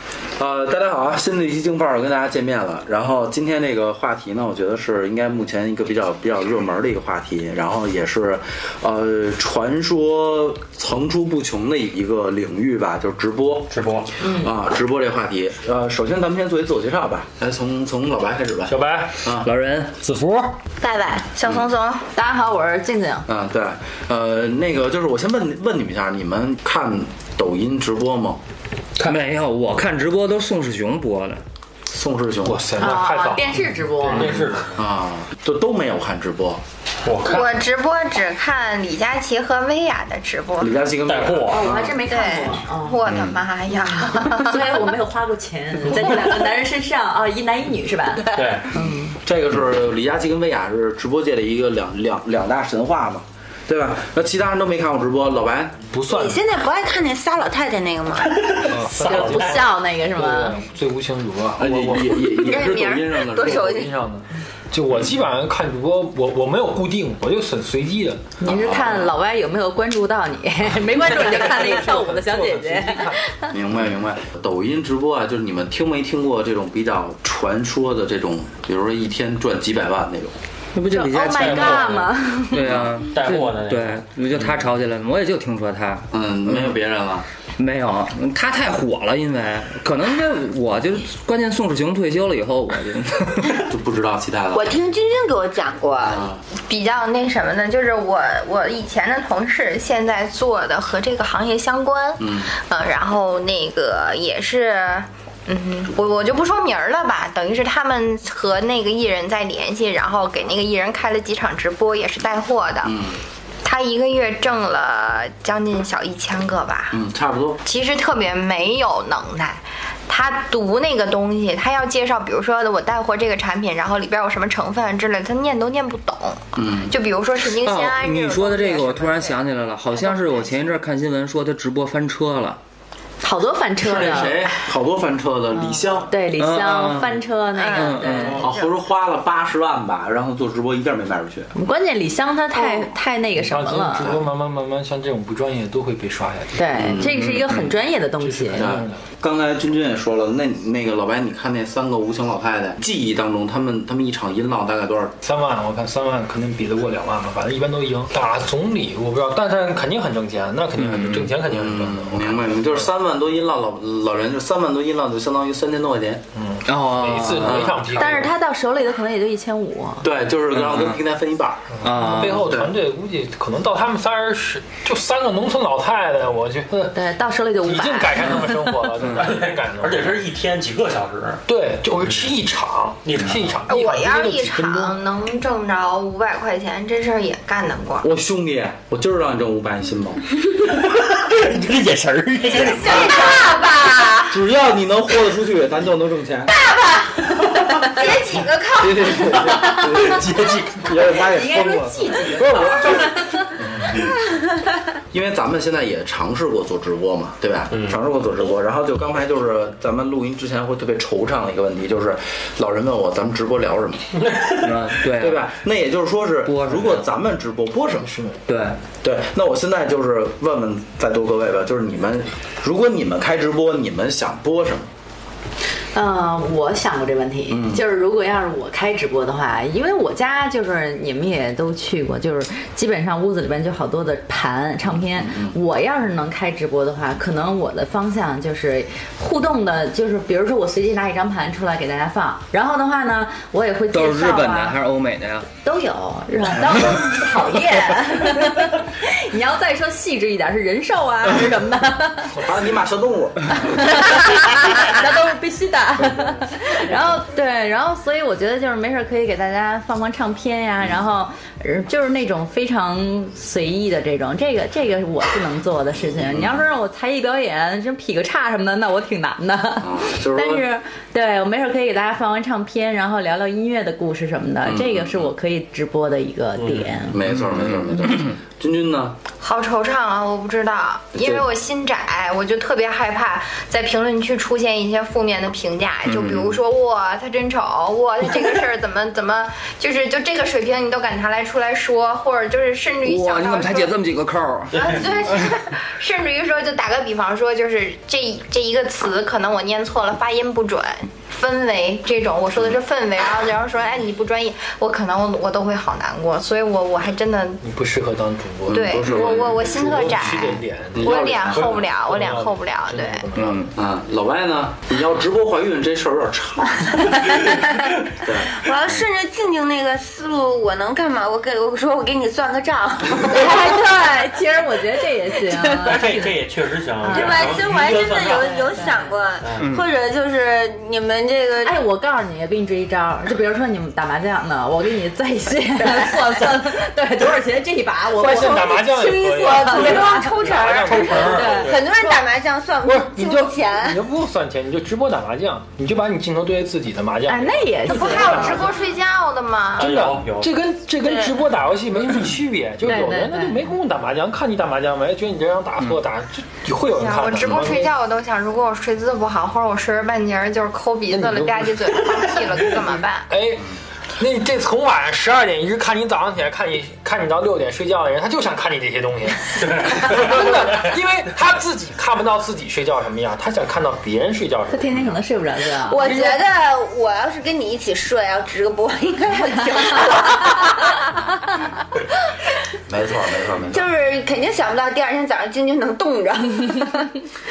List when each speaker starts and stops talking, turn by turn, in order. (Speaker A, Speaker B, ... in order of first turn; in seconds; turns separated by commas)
Speaker A: 0.4-19.5, Speaker B: 13.7-14.1, Speaker C: 18.7-19.2, Speaker D: 19.3-19.9, Speaker C: 20.0-20.6, Speaker E: 20.8-22.1, Speaker F: 22.1-23.3, Speaker A: 23.3-28.4, Speaker D: 29.0-31.4, Speaker A: 31.9-32.7, Speaker C: 32.4-34.7, Speaker F: 32.8-34.4, Speaker B: 34.2-34.8, Speaker A: 34.8-36.6, Speaker B: 37.0-37.6, Speaker E: 37.2-40.8, Speaker A: 40.6-42.0, Speaker B: 41.0-41.7, Speaker F: 41.5-43.0, Speaker E: 42.1-44.7, Speaker A: 43.1-43.4, Speaker F: 44.2-49.1, Speaker B: 48.3-48.7, Speaker A: 49.2-55.8, Speaker C: 55.9-56.4, Speaker G: 56.0-58.6, Speaker B: 58.4-59.6, Speaker C: 58.6-62.2, Speaker F: 59.0-60.6, Speaker A: 61.6-63.7, Speaker G: 62.3-63.9, Speaker C: 63.4-68.3, Speaker F: 68.4-73.5, Speaker A: 68.4-69.2, Speaker C: 70.8-73.2, Speaker A: 73.5-80.3, Speaker D: 80.8-86.7, Speaker F: 80.9-82.7, Speaker B: 81.3-82.1, Speaker A: 82.6-82.9, Speaker B: 83.1-84.0, Speaker A: 86.1-87.3, Speaker D: 87.6-93.6, Speaker A: 93.6-94.7, Speaker G: 94.5-96.3, Speaker A: 96.1-96.4, Speaker E: 96.7-112.9, Speaker A: 102.2-102.5, Speaker A: 112.8-113.2, Speaker E: 113.6-117.0, Speaker A: 116.9-117.6, Speaker E: 117.6-129.4, Speaker A: 126.6-126.9, Speaker D: 127.6-132.6, Speaker F: 133.2-134.4, Speaker A: 133.8-136.1, Speaker C: 134.0-134.3, Speaker F: 135.6-138.4, Speaker D: 136.4-138.4, Speaker E: 137.6-138.7, Speaker A: 138.3-141.5, Speaker F: 141.6-144.2, Speaker E: 142.6-142.9, Speaker C: 143.4-146.6, Speaker F: 146.6-148.8, Speaker A: 146.8-147.2, Speaker D: 147.1-147.7, Speaker C: 148.2-149.1, Speaker A: 148.6-155.2, Speaker C: 155.2-162.8, Speaker D: 160.8-161.4, Speaker A: 161.5-166.2, Speaker C: 166.3-168.4, Speaker D: 166.7-167.7, Speaker A: 167.4-167.8, Speaker F: 167.9-170.1, Speaker A: 170.0-171.9, Speaker D: 170.5-171.0, Speaker C: 171.8-177.0, Speaker D: 171.8-172.6, Speaker A: 172.5-172.7, Speaker F: 176.9-178.6, Speaker C: 177.6-180.3, Speaker D: 179.0-179.3, Speaker B: 179.1-181.4, Speaker C: 181.5-185.0, Speaker B: 183.1-183.4, Speaker E: 183.7-188.1, Speaker A: 188.0-190.2, Speaker B: 190.5-193.4, Speaker E: 192.5-194.3, Speaker G: 192.8-194.1, Speaker A: 194.3-196.6, Speaker G: 196.7-197.0, Speaker G: 197.8-199.4, Speaker E: 198.0-198.6, Speaker A: 198.8-203.1, Speaker B: 200.0-200.8, Speaker F: 201.1-203.5, Speaker C: 202.4-204.0, Speaker A: 203.6-204.1, Speaker A: 205.1-214.1, Speaker B: 207.7-208.0, Speaker D: 214.5-215.4, Speaker A: 215.0-218.1, Speaker D: 216.4-217.1, Speaker C: 218.0-218.4, Speaker D: 218.5-218.8, Speaker A: 219.0-224.9, Speaker F: 225.9-244.8, Speaker A: 227.5-227.8, Speaker A: 235.2-235.6, Speaker D: 243.9-245.5, Speaker F: 245.6-252.4, Speaker A: 252.4-254.1, Speaker F: 253.6-277.2, Speaker A: 266.2-266.6, Speaker A: 269.8-270.7, Speaker A: 274.6-275.3, Speaker B: 276.6-276.9, Speaker A: 277.1-279.2, Speaker E: 279.4-294.0, Speaker A: 281.2-281.5, Speaker D: 286.1-286.3, Speaker A: 286.1-286.6, Speaker D: 293.0-295.0, Speaker E: 294.7-307.6, Speaker C: 307.6-313.7, Speaker A: 308.7-310.3, Speaker E: 308.7-313.2, Speaker A: 310.9-311.9, Speaker D: 313.4-313.7, Speaker A: 313.7-317.4, Speaker A: 318.2-318.6, Speaker G: 318.5-323.9, Speaker F: 323.2-326.4, Speaker B: 325.8-328.8, Speaker F: 327.0-329.1, Speaker G: 327.1-331.8, Speaker B: 329.4-329.7, Speaker D: 329.6-329.9, Speaker F: 331.6-341.8, Speaker G: 335.8-336.6, Speaker C: 338.1-341.7, Speaker G: 339.4-344.0, Speaker B: 341.1-341.8, Speaker C: 342.8-348.8, Speaker F: 347.3-348.7, Speaker E: 347.9-349.9, Speaker B: 349.8-350.6, Speaker C: 349.8-357.9, Speaker G: 351.0-351.4, Speaker F: 352.9-353.6, Speaker E: 356.9-363.3, Speaker C: 361.1-375.1, Speaker B: 369.6-370.5, Speaker F: 374.7-376.3, Speaker G: 375.8-381.1, Speaker C: 376.1-376.3, Speaker A: 382.9-383.9, Speaker G: 383.6-387.1